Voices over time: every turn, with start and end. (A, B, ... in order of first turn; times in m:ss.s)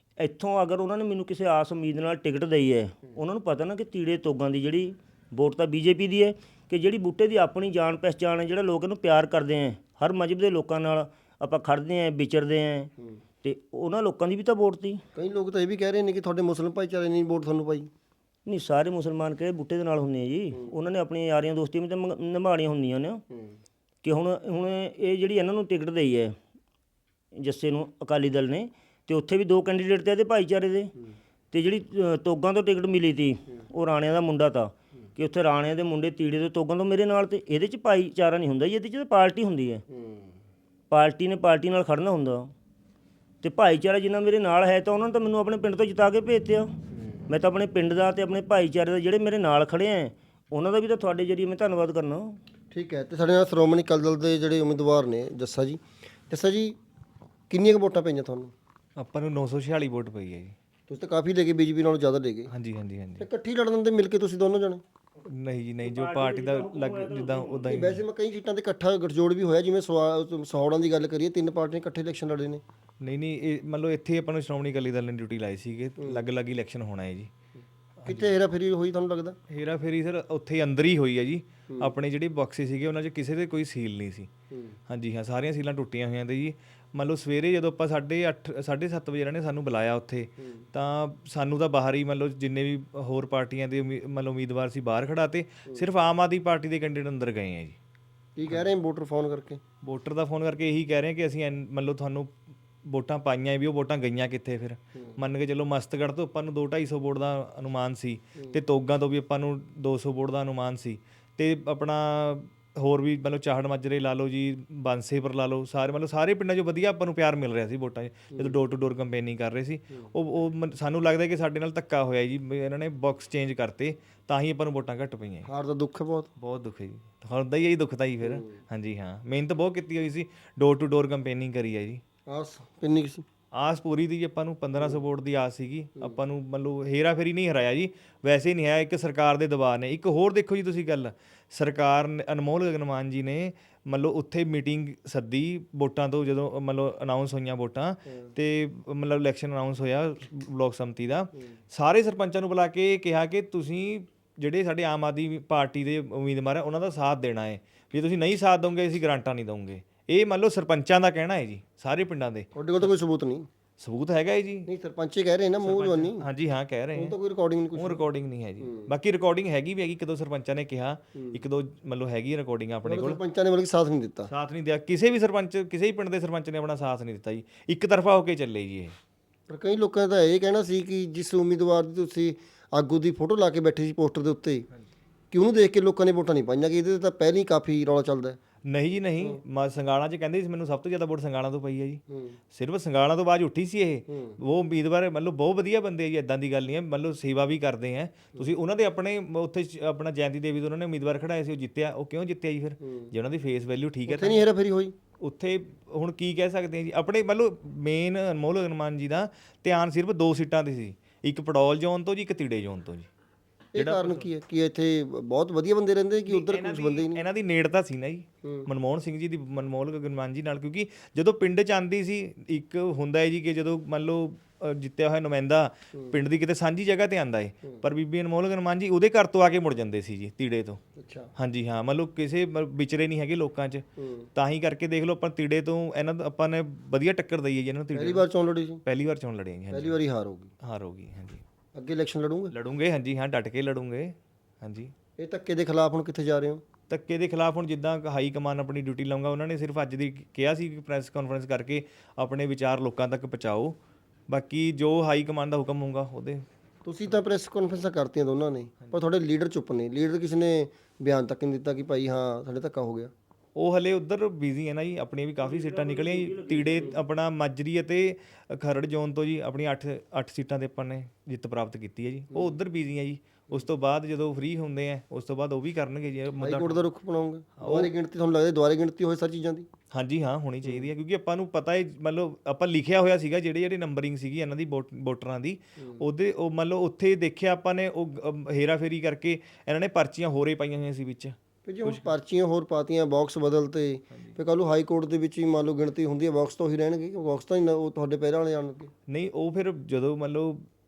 0:00.2-0:12.9 A
0:13.4-0:15.0 A
0:15.2-0:17.9 B
0:18.5-0:23.2 A
0:24.0-0:26.4 A
0:27.4-0:30.9 A
0:31.5-0:39.8 A
0:39.9-0:40.3 B
0:40.9-0:42.5 A
0:43.4-0:46.7 A
0:47.3-0:52.4 A
0:52.7-0:56.8 B
0:57.5-0:58.5 B
0:59.0-1:00.6 C
1:00.9-1:02.5 B
1:02.5-1:03.2 C
1:03.2-1:04.8 B
1:05.2-1:08.0 C
1:05.8-1:07.9 A
1:07.7-1:12.6 B
1:13.0-1:17.3 C
1:18.0-1:18.3 C
1:18.1-1:19.4 B
1:19.5-1:24.3 C
1:24.9-1:37.8 C
1:38.4-1:39.6 B
1:39.8-1:42.4 C
1:42.9-2:05.5 C
2:05.5-2:06.3 B
2:06.4-2:12.0 C
2:08.2-2:08.6 B
2:12.3-2:13.2 B
2:13.5-2:42.9 C
2:42.6-2:43.5 B
2:43.8-2:44.7 C
2:44.7-2:46.3 B
2:45.6-2:47.2 C
2:47.0-2:48.0 B
2:47.8-2:53.2 C
2:48.6-2:48.9 B
2:51.2-2:51.4 B
2:52.8-2:54.3 B
2:54.3-2:59.0 C
2:59.5-3:04.7 B
3:05.3-3:08.4 B
3:08.7-3:12.0 C
3:12.1-3:12.4 B
3:12.5-3:24.4 C
3:14.1-3:14.4 B
3:22.8-3:23.1 B
3:24.1-3:25.0 B
3:25.2-3:33.1 C
3:33.7-3:37.2 B
3:33.8-3:34.3 C
3:36.3-3:50.8 C
3:51.0-3:51.3 B
3:51.4-3:53.8 C
3:54.0-3:54.3 B
3:54.4-3:58.2 C
3:57.9-3:58.8 B
3:58.8-4:00.0 C
3:59.7-4:00.5 B
4:00.6-4:01.4 C
4:01.8-4:02.5 B
4:02.5-4:04.9 C
4:05.2-4:06.6 B
4:06.9-4:13.8 C
4:14.3-4:16.4 C
4:16.8-4:23.1 B
4:23.6-4:36.8 C
4:25.4-4:27.0 A
4:36.4-4:39.7 B
4:37.6-4:37.9 C
4:39.9-4:52.1 C
4:51.7-4:58.9 B
4:54.1-4:54.4 C
4:59.1-5:00.6 C